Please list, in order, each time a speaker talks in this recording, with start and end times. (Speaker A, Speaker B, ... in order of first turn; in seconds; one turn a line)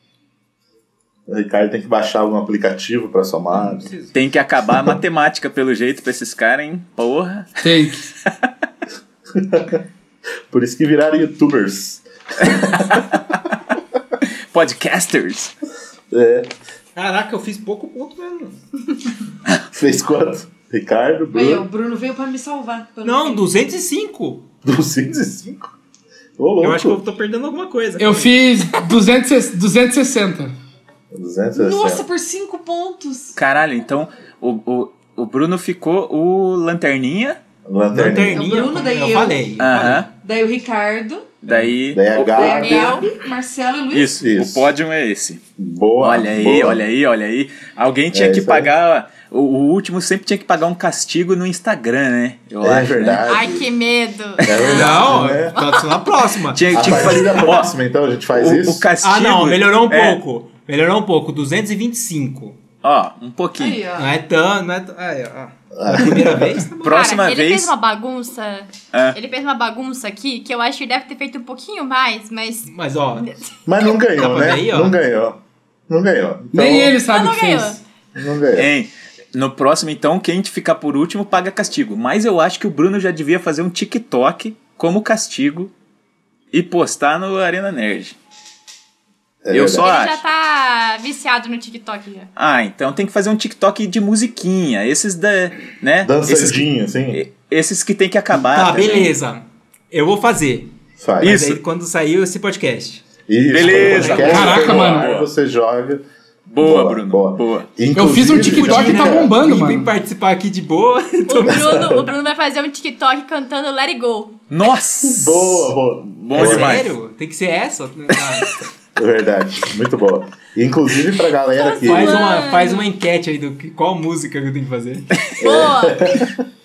Speaker A: 1.3-3.9
Speaker B: 3.6-4.2
Speaker C: 4.1-8.5
Speaker D: 7.6-8.0
Speaker A: 9.3-9.8
Speaker A: 10.5-13.0
Speaker C: 14.5-15.5
Speaker A: 16.1-16.5
Speaker B: 17.0-18.6
Speaker A: 19.7-21.7
Speaker E: 21.3-23.5
Speaker B: 23.0-24.5
Speaker A: 24.6-25.8
Speaker A: 26.4-27.0
Speaker B: 26.6-28.5
Speaker D: 28.0-30.5
Speaker A: 31.1-32.0
Speaker E: 31.6-33.4
Speaker C: 33.4-37.4
Speaker A: 37.6-38.6
Speaker B: 37.9-40.1
Speaker E: 38.3-39.5
Speaker C: 39.6-40.1
Speaker E: 40.2-41.3
Speaker C: 41.4-42.6
Speaker A: 41.9-43.0
Speaker E: 42.2-44.2
Speaker F: 42.6-43.1
Speaker C: 43.9-45.4
Speaker A: 44.2-44.7
Speaker A: 45.6-46.8
Speaker C: 46.0-53.3
Speaker A: 48.1-48.7
Speaker A: 52.6-53.7
Speaker F: 53.3-56.1
Speaker A: 54.4-55.6
Speaker B: 54.7-57.0
Speaker C: 56.5-57.7
Speaker A: 56.7-58.9
Speaker C: 58.3-60.2
Speaker B: 59.0-62.6
Speaker C: 62.8-63.8
Speaker E: 63.6-64.1
Speaker B: 64.0-66.9
Speaker A: 65.8-66.6
Speaker C: 66.8-67.7
Speaker F: 66.9-73.5
Speaker B: 72.7-73.2
Speaker A: 73.7-77.0
Speaker B: 74.2-75.0
Speaker D: 76.5-77.8
Speaker F: 77.0-77.8
Speaker A: 78.2-78.7
Speaker C: 78.6-85.7
Speaker C: 86.5-88.2
Speaker A: 89.4-89.9
Speaker C: 89.5-90.2
Speaker F: 89.8-92.3
Speaker C: 92.4-99.1
Speaker A: 96.0-97.2
Speaker B: 98.4-103.1
Speaker A: 101.0-101.4
Speaker C: 101.2-101.6
Speaker A: 103.3-106.0
Speaker C: 103.5-105.3
Speaker B: 103.6-104.8
Speaker D: 104.2-105.1
Speaker C: 106.5-107.7
Speaker A: 106.6-109.3
Speaker D: 108.0-109.9
Speaker B: 108.2-112.0
Speaker F: 111.3-114.4
Speaker A: 111.5-112.1
Speaker C: 114.5-116.9
Speaker A: 115.0-116.8
Speaker B: 116.3-118.5
Speaker A: 119.0-122.2
Speaker F: 121.6-122.9
Speaker B: 121.9-125.1
Speaker F: 125.4-126.0
Speaker A: 125.4-126.4